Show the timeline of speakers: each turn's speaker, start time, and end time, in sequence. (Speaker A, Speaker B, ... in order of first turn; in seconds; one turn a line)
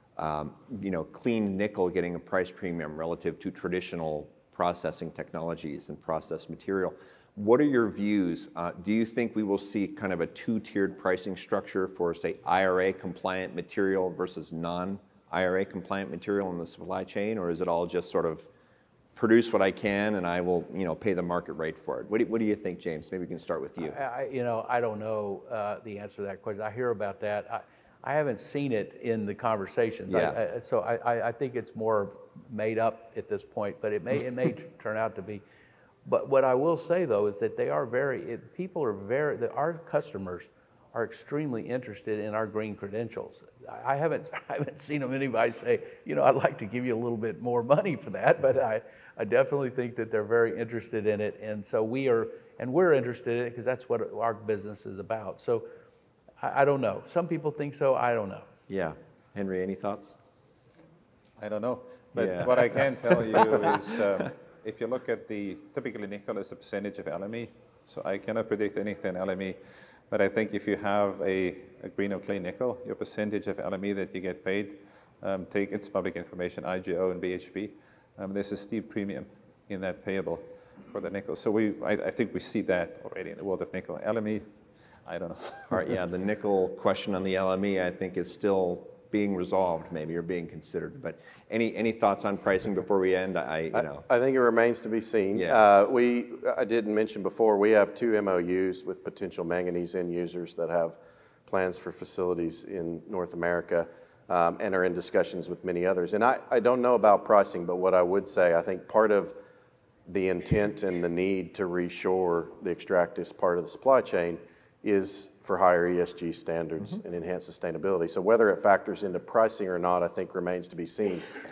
Speaker A: 0.2-18.5
Speaker A: 19.1-24.0
Speaker B: 23.8-35.4
Speaker A: 30.1-30.4
Speaker B: 36.0-55.7
Speaker B: 56.4-58.5
Speaker A: 58.7-60.2
Speaker C: 61.4-69.6
Speaker A: 62.1-63.8
Speaker C: 70.1-84.5
Speaker C: 85.0-85.8
Speaker A: 85.7-94.0
Speaker D: 93.7-109.3
Speaker A: 95.3-95.6
Speaker D: 110.1-121.3